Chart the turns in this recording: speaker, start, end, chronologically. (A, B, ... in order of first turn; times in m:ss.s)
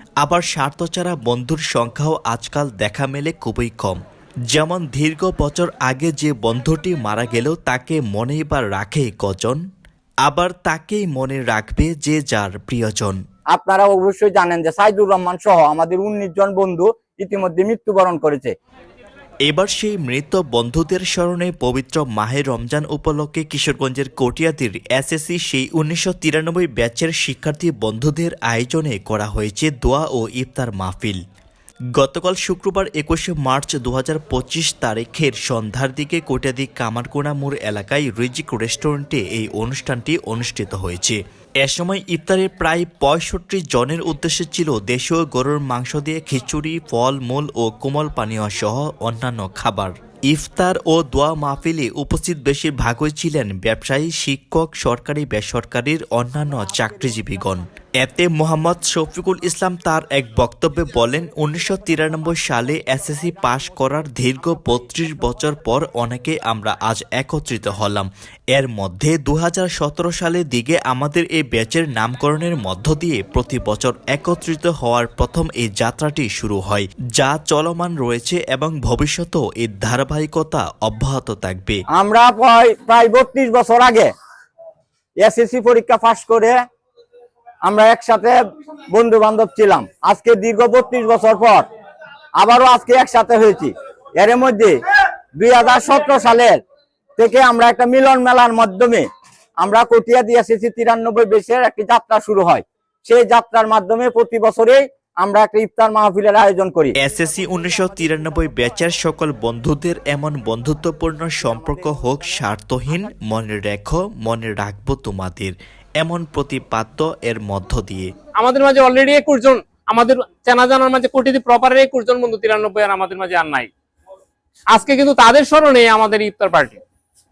0:00.2-0:09.6 A
0:10.2-0:13.2 A
0:13.5-0:18.5 B
0:19.5-0:31.2 A
0:32.0-1:21.8 A
1:22.0-1:24.1 B
1:25.2-1:26.6 B
1:27.7-1:28.4 B
1:28.9-1:31.7 B
1:32.4-1:34.8 B
1:35.4-1:36.6 B
1:37.2-1:39.0 B
1:39.6-1:47.0 B
1:47.0-1:58.1 A
1:58.4-2:03.7 C
2:04.7-2:06.8 C